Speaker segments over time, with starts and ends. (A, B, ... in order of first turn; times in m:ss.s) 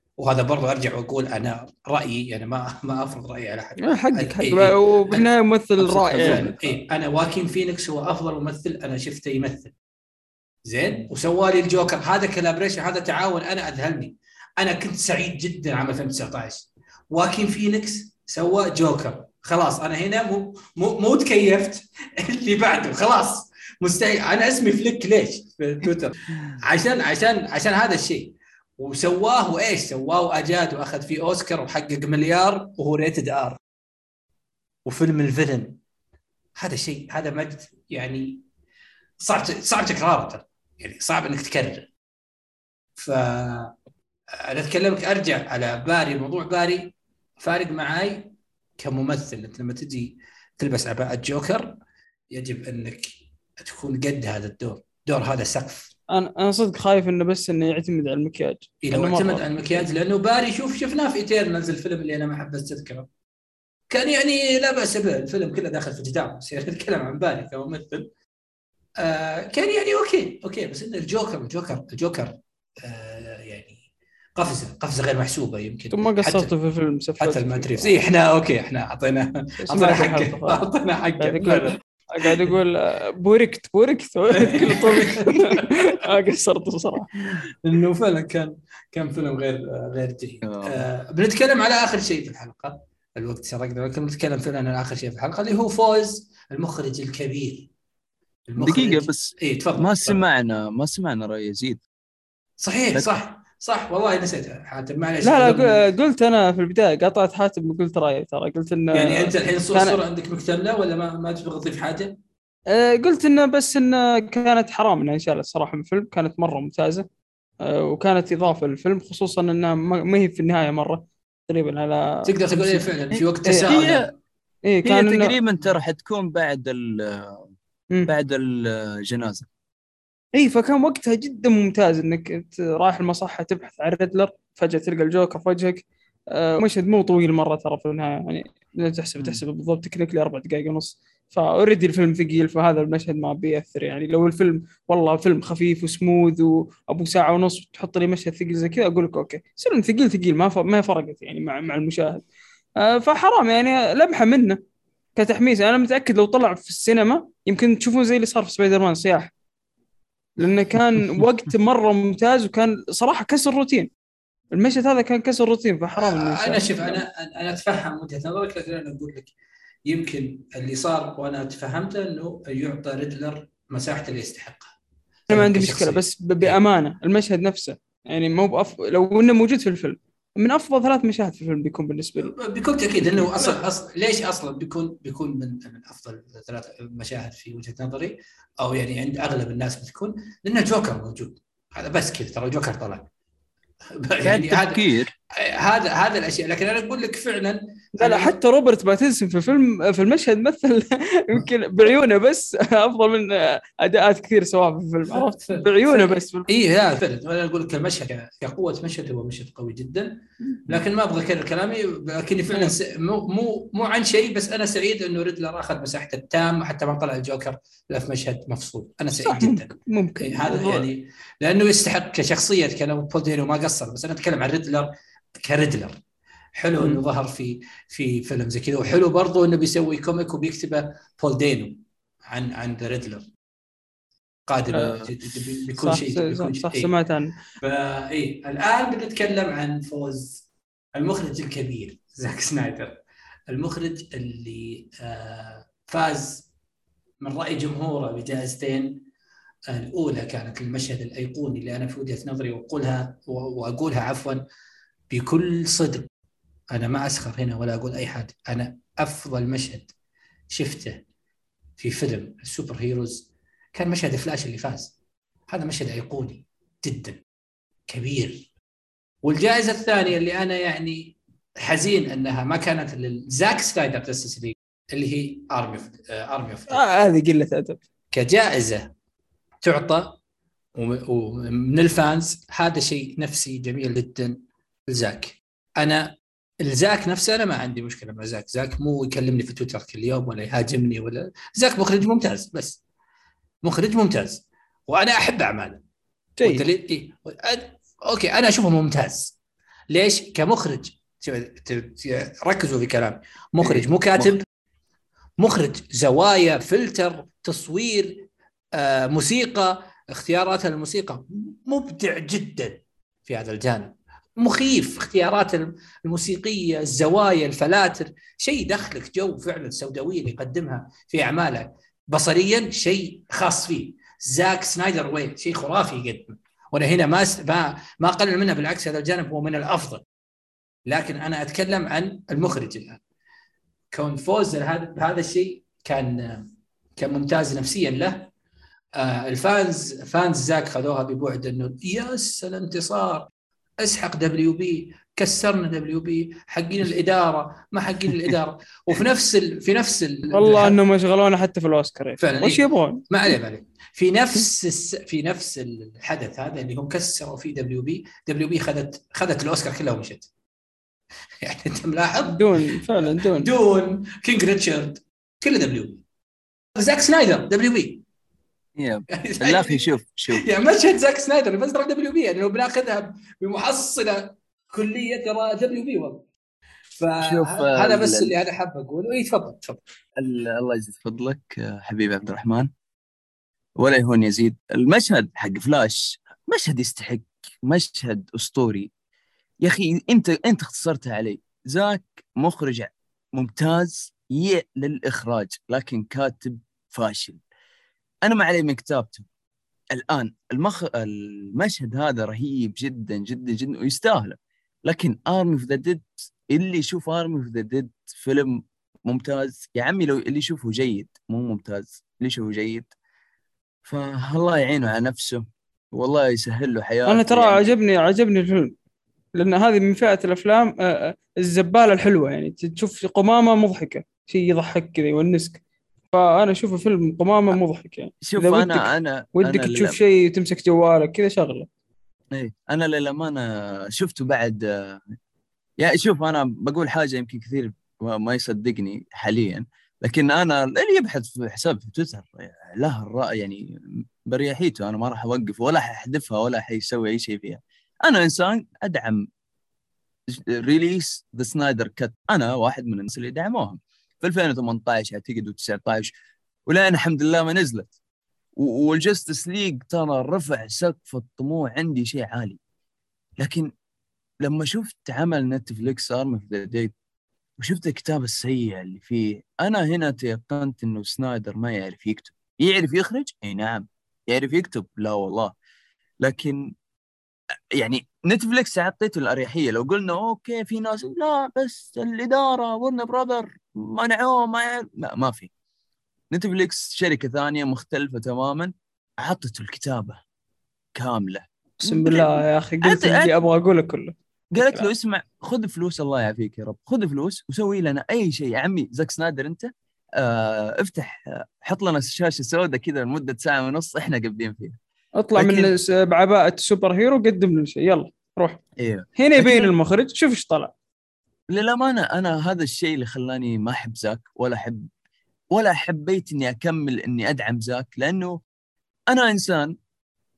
0:00.2-0:05.3 A
0:03.8-0:06.5 B
0:05.8-0:06.8 C
0:06.1-0:09.7 A
0:10.7-0:33.6 A
0:34.8-0:35.8 A
0:36.6-0:38.4 A
0:39.2-0:41.9 A
0:43.0-0:43.7 A
0:44.4-0:51.8 A
0:52.3-0:55.9 A
0:56.1-0:59.8 B
0:58.8-1:03.1 A
1:03.9-1:08.1 A
1:09.0-1:13.8 A
1:14.4-1:16.5 A
1:15.9-1:18.0 B
1:17.2-1:22.5 A
1:19.6-1:20.6 B
1:21.2-1:27.3 B
1:24.4-1:25.7 A
1:27.6-1:37.7 A
1:30.4-1:30.8 C
1:38.5-1:40.2 A
1:38.6-1:41.8 C
1:42.6-1:45.8 A
1:45.2-1:50.0 B
1:48.9-1:52.2 A
1:52.7-1:57.0 B
1:57.6-2:02.9 B
2:02.2-2:04.1 A
2:03.1-2:04.1 C
2:03.4-2:03.8 B
2:04.6-2:05.4 B
2:04.8-2:07.5 C
2:08.1-2:09.5 C
2:10.3-2:32.2 B
2:32.8-2:34.6 B
2:35.2-2:39.3 B
2:40.4-2:43.9 B
2:44.5-2:47.0 B
2:46.0-2:49.3 A
2:49.9-2:54.7 A
2:55.3-2:56.6 A
2:55.3-3:02.3 B
3:02.2-3:13.1 A
3:03.2-3:03.6 B
3:14.0-3:14.8 A
3:14.2-3:15.1 C
3:15.4-3:18.4 A
3:18.0-3:26.5 B
3:25.1-3:30.2 A
3:30.7-3:44.9 A
3:39.2-3:40.9 B
3:45.4-3:46.0 A
3:46.6-3:51.8 A
3:52.3-3:53.3 A
3:54.5-3:56.9 A
3:54.7-3:55.1 B
3:55.7-3:57.3 B
3:57.6-4:02.9 A
4:03.5-4:06.5 A
4:07.2-4:08.9 A
4:09.7-4:14.4 A
4:15.1-4:16.1 A
4:16.7-4:19.9 A
4:20.5-4:21.0 A
4:21.8-4:24.9 A
4:25.5-4:27.2 A
4:27.9-4:28.5 A
4:29.2-4:36.8 A
4:36.7-4:37.8 B
4:38.1-4:38.9 A
4:39.6-4:40.2 A
4:40.8-4:44.3 A
4:44.9-4:46.1 A
4:46.6-4:52.8 A
4:53.6-4:55.8 A
4:56.4-4:56.6 B
4:56.4-4:59.3 A
4:59.9-5:04.4 A
5:03.6-5:04.4 C
5:05.4-5:30.0 A
5:30.9-5:33.0 A
5:33.9-5:38.3 A
5:39.0-5:43.3 A
5:43.8-5:50.8 A
5:50.3-5:53.3 B
5:52.2-6:00.3 A
6:01.4-6:06.0 A
6:02.3-6:03.5 B
6:06.8-6:08.0 A
6:08.8-6:10.4 C
6:09.1-6:16.3 A
6:17.0-6:19.8 A
6:17.2-6:18.3 C
6:20.2-6:22.7 C
6:23.8-6:28.9 C
6:29.6-6:37.4 C
6:38.2-6:39.3 C
6:39.9-6:52.9 C
6:53.8-6:57.7 C
6:57.1-6:58.7 B
6:59.4-7:05.6 B
7:06.1-7:11.7 B
7:08.2-7:10.0 C
7:12.3-7:15.2 C
7:15.8-7:29.3 C
7:30.3-7:36.1 C
7:36.7-7:37.9 C
7:38.6-7:42.6 C
7:43.4-7:43.7 C
7:44.4-7:46.9 C
7:47.6-7:55.5 C
7:56.2-7:56.7 C
7:57.7-8:05.5 C
8:06.3-8:10.2 C
8:10.9-8:13.3 C
8:11.8-8:14.9 B
8:14.5-8:24.8 C
8:25.2-8:28.6 B
8:25.3-8:25.7 C
8:28.8-8:29.7 C
8:29.2-8:30.7 B
8:31.5-8:34.9 C
8:35.5-8:38.3 C
8:39.1-8:39.7 C